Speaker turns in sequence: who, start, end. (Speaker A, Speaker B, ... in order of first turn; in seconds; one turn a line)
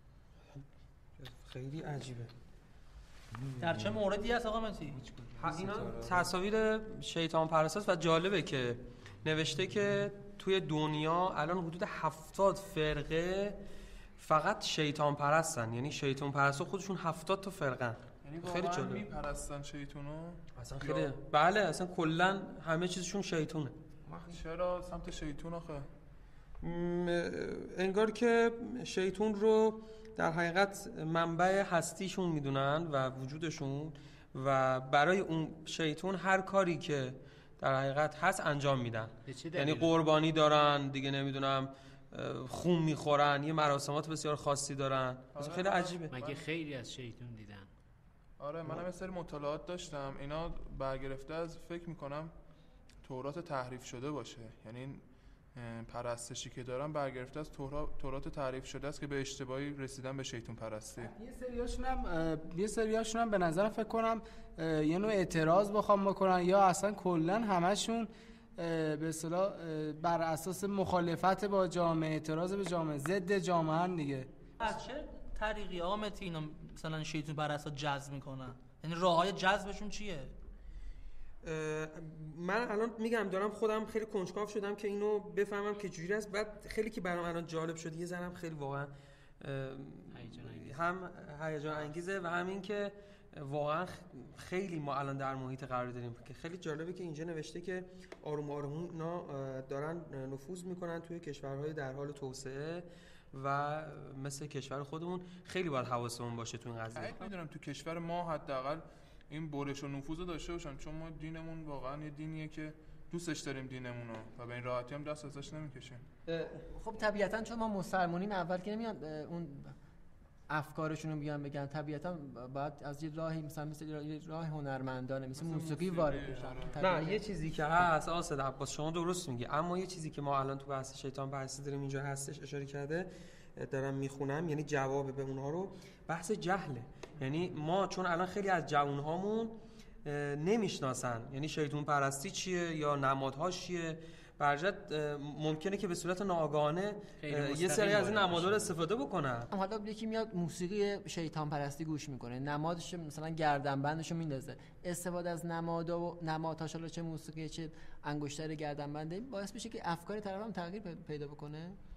Speaker A: 1.2-2.3
Speaker B: 3.6-5.7
Speaker A: 5.4-13.6
Speaker A: 14.2-19.1
Speaker C: 18.2-21.1
Speaker A: 20.6-23.8
Speaker C: 24.1-25.9
Speaker A: 26.6-46.1
Speaker D: 39.3-39.9
Speaker C: 45.3-46.4
Speaker D: 46.1-47.7
Speaker C: 48.4-52.3
Speaker C: 53.0-61.1
Speaker E: 61.0-74.3
Speaker B: 74.6-80.3
Speaker A: 81.4-107.3
Speaker D: 90.2-90.8
Speaker C: 106.9-116.0
Speaker A: 116.3-116.5
Speaker F: 116.7-119.7
Speaker F: 120.5-127.2
Speaker C: 125.3-126.8
Speaker A: 126.8-149.5
Speaker D: 147.2-148.7
Speaker F: 149.5-161.8